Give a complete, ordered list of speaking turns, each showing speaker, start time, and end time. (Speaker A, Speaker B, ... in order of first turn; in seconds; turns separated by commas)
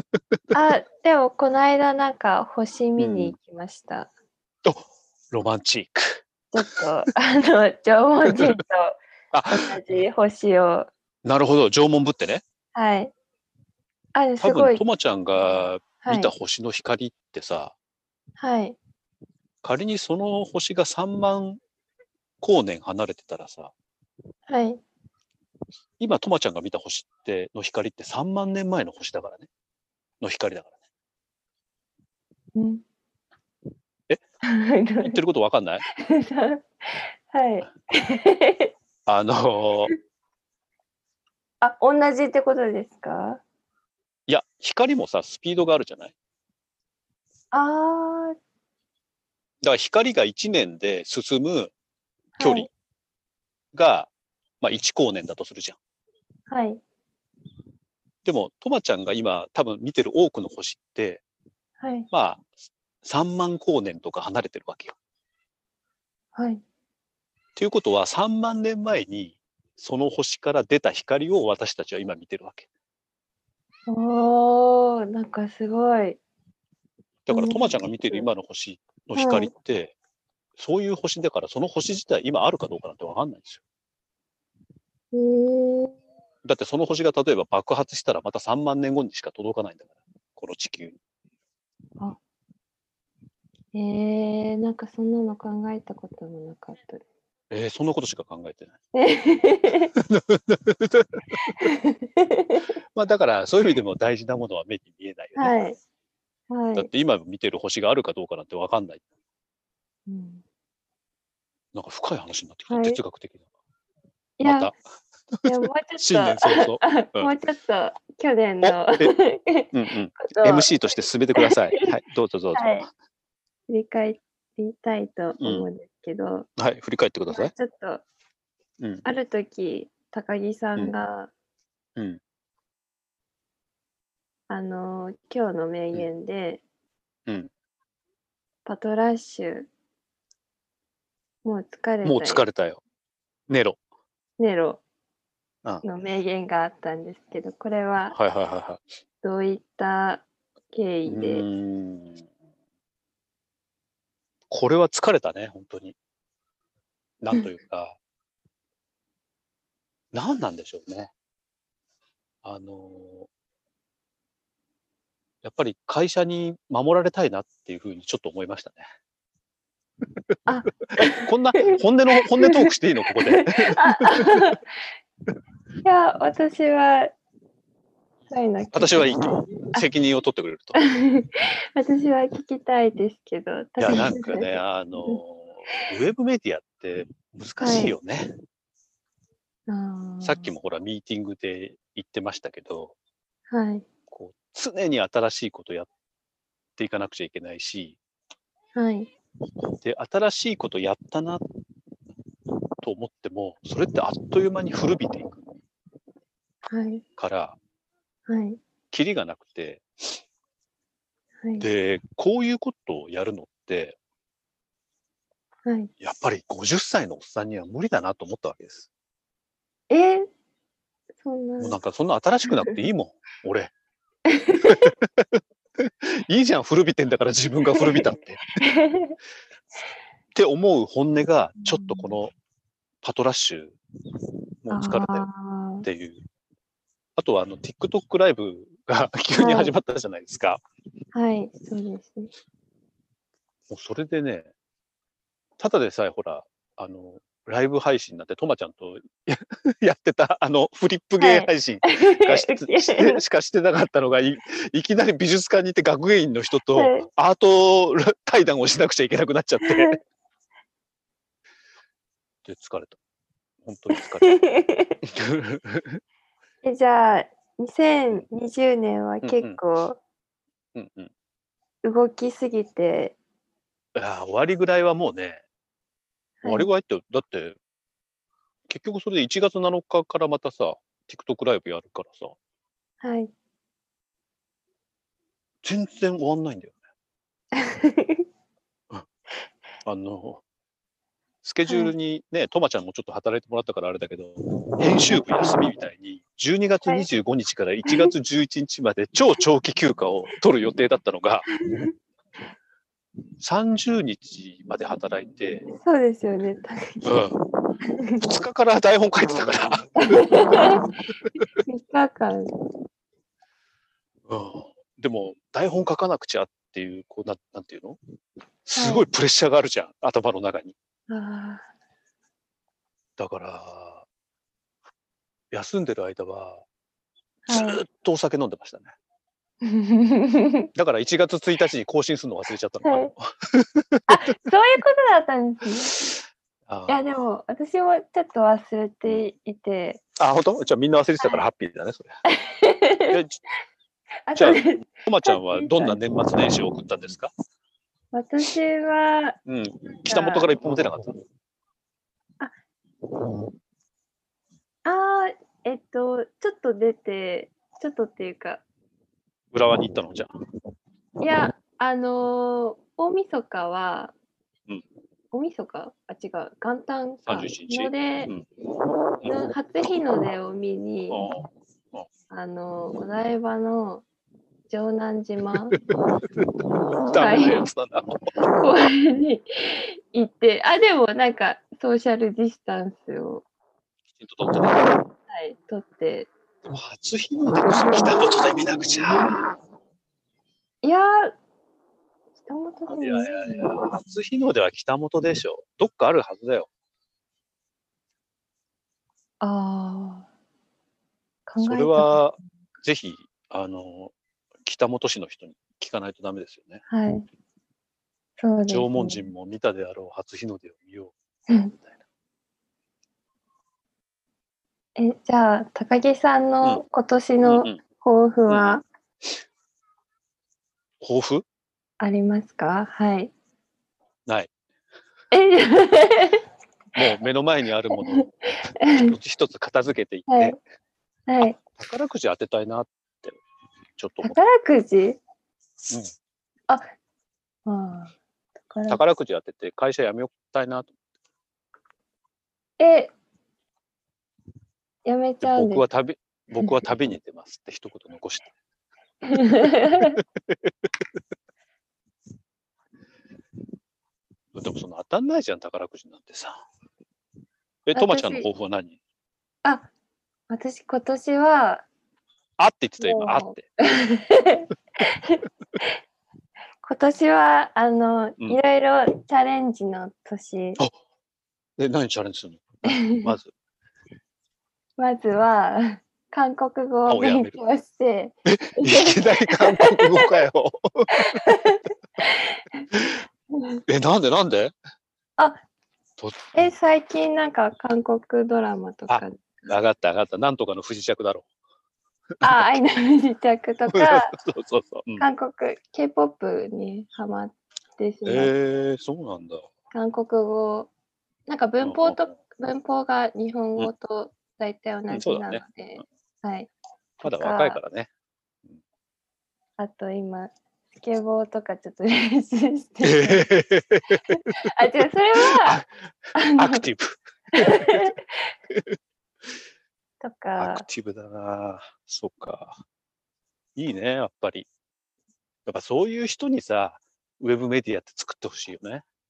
Speaker A: 0.5-4.1, Speaker B: 3.0-3.4, Speaker B: 4.6-6.7, Speaker A: 6.5-9.0, Speaker B: 8.3-8.6, Speaker B: 9.3-9.8, Speaker A: 9.5-10.9, Speaker B: 11.2-12.4, Speaker A: 12.7-13.1, Speaker A: 14.1-14.8, Speaker B: 14.4-17.7, Speaker A: 16.0-16.3, Speaker A: 18.4-18.8, Speaker B: 19.6-21.6, Speaker B: 22.4-23.7, Speaker A: 24.5-24.8, Speaker B: 26.0-29.5, Speaker B: 30.2-30.8, Speaker A: 32.5-32.8, Speaker A: 34.5-35.2, Speaker B: 35.0-35.8, Speaker A: 35.9-38.7, Speaker B: 39.1-39.9, Speaker A: 41.6-43.4, Speaker B: 44.3-46.1, Speaker A: 47.5-48.3, Speaker B: 49.6-51.7, Speaker A: 52.4-52.7, Speaker B: 52.4-52.7, Speaker B: 53.7-54.1, Speaker B: 54.6-55.8, Speaker A: 56.5-56.8, Speaker B: 58.2-61.2, Speaker A: 61.8-62.1, Speaker B: 62.1-62.5, Speaker B: 63.0-64.9, Speaker A: 66.3-66.6, Speaker B: 67.5-72.7, Speaker A: 73.9-76.2, Speaker B: 77.3-79.9, Speaker A: 77.3-78.3, Speaker A: 79.1-79.5, Speaker B: 80.6-83.6, Speaker A: 85.1-85.9, Speaker B: 86.4-91.0, Speaker A: 93.7-97.0, Speaker B: 97.5-98.8, Speaker A: 98.9-99.9, Speaker B: 100.0-101.2, Speaker A: 101.6-102.7, Speaker B: 102.9-105.6, Speaker A: 105.3-105.8, Speaker A: 106.5-106.9, Speaker B: 106.7-109.0, Speaker A: 110.1-110.4, Speaker B: 111.7-113.4, Speaker A: 112.7-113.0, Speaker A: 114.4-114.7, Speaker B: 114.4-114.8, Speaker A: 115.4-120.7, Speaker B: 116.0-117.3, Speaker B: 118.6-119.2, Speaker B: 119.7-122.9, Speaker A: 121.4-121.8, Speaker A: 122.5-122.9, Speaker A: 123.7-126.5, Speaker B: 125.4-125.7, Speaker B: 126.6-127.5, Speaker A: 127.3-128.0, Speaker B: 128.8-129.0, Speaker A: 129.0-131.3, Speaker A: 134.5-136.6, Speaker A: 138.6-139.7, Speaker A: 141.4-142.4, Speaker B: 142.0-142.8, Speaker B: 143.5-143.8, Speaker A: 144.4-144.8, Speaker A: 145.8-148.2, Speaker B: 148.1-148.8, Speaker A: 149.2-151.4, Speaker B: 151.1-152.2, Speaker B: 154.5-155.9, Speaker B: 157.2-158.0, Speaker B: 160.1-161.1, Speaker B: 162.4-163.3, Speaker B: 165.4-168.8, Speaker A: 170.4-171.8, Speaker B: 171.2-174.4, Speaker A: 172.4-174.6, Speaker A: 175.8-177.1, Speaker A: 178.3-179.0, Speaker B: 178.7-180.8, Speaker A: 180.8-185.2, Speaker B: 183.8-188.3, Speaker A: 187.6-187.9, Speaker A: 189.7-190.5, Speaker B: 190.2-192.9, Speaker A: 193.5-193.8, Speaker B: 194.1-195.9, Speaker B: 196.8-198.0, Speaker A: 198.7-199.1, Speaker B: 199.7-201.4, Speaker B: 202.8-205.4, Speaker A: 206.7-207.0, Speaker B: 207.2-207.6, Speaker A: 208.3-208.6, Speaker B: 208.9-209.8, Speaker A: 211.4-211.7, Speaker B: 211.6-214.0, Speaker A: 215.6-215.9, Speaker B: 216.0-218.9, Speaker A: 219.9-220.2, Speaker A: 221.2-221.8, Speaker B: 221.6-223.7, Speaker A: 224.3-224.9, Speaker B: 224.6-228.4, Speaker A: 228.6-229.2, Speaker B: 230.3-232.3, Speaker A: 231.6-232.2, Speaker B: 233.0-233.8, Speaker B: 234.6-235.3, Speaker A: 234.7-235.9, Speaker B: 235.8-236.2, Speaker B: 237.2-240.6, Speaker A: 239.4-239.7, Speaker A: 241.1-242.3, Speaker B: 243.7-244.5, Speaker B: 245.6-259.9, Speaker A: 251.2-253.2, Speaker A: 256.7-257.0, Speaker A: 259.6-260.0, Speaker B: 262.4-263.0, Speaker B: 263.6-264.4, Speaker A: 263.9-264.9, Speaker B: 265.1-266.0, Speaker A: 266.6-270.0, Speaker B: 269.2-269.6, Speaker B: 270.7-271.1, Speaker A: 271.8-273.1, Speaker B: 273.9-275.4, Speaker A: 276.4-276.7, Speaker B: 276.4-277.6, Speaker B: 278.7-282.4, Speaker A: 283.0-283.3, Speaker B: 285.6-286.8, Speaker A: 287.6-288.2, Speaker B: 289.8-290.4, Speaker B: 291.4-301.5, Speaker A: 291.7-291.9, Speaker B: 303.4-305.6, Speaker A: 305.8-307.1, Speaker B: 307.0-307.4, Speaker B: 308.2-310.7, Speaker A: 310.0-310.8, Speaker A: 311.7-312.5, Speaker B: 314.3-318.0, Speaker B: 318.7-320.7, Speaker A: 318.8-319.0, Speaker A: 321.1-321.7, Speaker B: 323.2-324.0, Speaker B: 325.5-326.6, Speaker A: 327.5-327.8, Speaker B: 327.5-328.9, Speaker A: 329.6-330.7, Speaker B: 330.7-334.1, Speaker A: 332.8-333.1, Speaker A: 334.1-336.1, Speaker B: 336.7-337.0, Speaker A: 336.9-340.0, Speaker B: 340.2-342.1, Speaker A: 342.3-343.2, Speaker B: 343.1-343.4, Speaker A: 344.3-346.0, Speaker B: 344.3-347.3, Speaker A: 348.1-349.4, Speaker B: 349.4-351.1, Speaker A: 350.1-350.5, Speaker A: 354.8-358.6, Speaker B: 359.5-360.3, Speaker A: 361.2-364.1, Speaker A: 365.3-368.3, Speaker B: 367.2-368.4, Speaker A: 369.2-371.3, Speaker B: 371.1-372.1, Speaker A: 372.3-374.0, Speaker A: 374.7-375.8, Speaker B: 376.4-378.2, Speaker A: 377.1-377.6, Speaker A: 378.5-383.4, Speaker B: 384.1-385.0, Speaker A: 385.3-386.3, Speaker B: 386.6-389.5, Speaker A: 390.8-391.3, Speaker A: 392.4-393.7, Speaker B: 392.9-396.7, Speaker A: 399.4-400.2, Speaker A: 401.5-402.2, Speaker B: 401.6-406.8, Speaker A: 406.9-407.2, Speaker A: 408.4-409.3, Speaker B: 408.7-411.1, Speaker A: 411.5-411.8, Speaker A: 414.9-418.8, Speaker B: 417.4-417.8, Speaker B: 418.5-418.8, Speaker B: 421.0-421.4, Speaker A: 422.0-423.3, Speaker B: 424.2-424.5, Speaker A: 425.3-426.4, Speaker B: 426.9-428.3, Speaker A: 428.8-429.1, Speaker B: 428.8-430.6, Speaker A: 430.3-430.6, Speaker A: 431.3-431.6, Speaker B: 431.4-433.4, Speaker B: 434.0-434.4, Speaker A: 434.2-435.2, Speaker A: 437.6-438.1, Speaker A: 438.7-439.0, Speaker B: 438.9-440.9, Speaker A: 442.8-443.1, Speaker A: 445.0-445.8, Speaker B: 445.4-448.5, Speaker A: 449.3-450.2, Speaker B: 449.3-450.7, Speaker B: 454.5-456.6, Speaker B: 457.9-459.0, Speaker A: 457.9-458.5, Speaker A: 459.6-459.9, Speaker A: 460.5-461.8, Speaker B: 462.6-463.6, Speaker A: 463.0-465.4, Speaker A: 466.8-470.8, Speaker B: 471.8-473.5, Speaker A: 472.9-473.3, Speaker A: 475.0-480.1, Speaker B: 477.1-477.6, Speaker B: 478.4-481.4, Speaker A: 481.3-482.9, Speaker A: 483.6-483.8, Speaker B: 483.9-484.7, Speaker B: 486.2-486.7, Speaker A: 486.5-489.7, Speaker B: 489.1-491.4, Speaker B: 492.4-492.7, Speaker A: 492.4-494.3, Speaker B: 493.9-495.2, Speaker A: 495.2-498.5, Speaker B: 498.2-499.6, Speaker A: 499.9-500.9, Speaker A: 501.5-507.8, Speaker B: 501.8-502.2, Speaker B: 505.1-505.6, Speaker B: 507.2-508.1, Speaker A: 509.8-513.5, Speaker B: 513.0-514.4, Speaker A: 514.6-515.8, Speaker B: 515.5-515.9, Speaker A: 516.3-516.9, Speaker B: 516.4-518.1, Speaker A: 517.5-518.2, Speaker A: 520.2-520.8, Speaker B: 520.6-522.8, Speaker B: 523.8-524.7, Speaker B: 525.6-529.0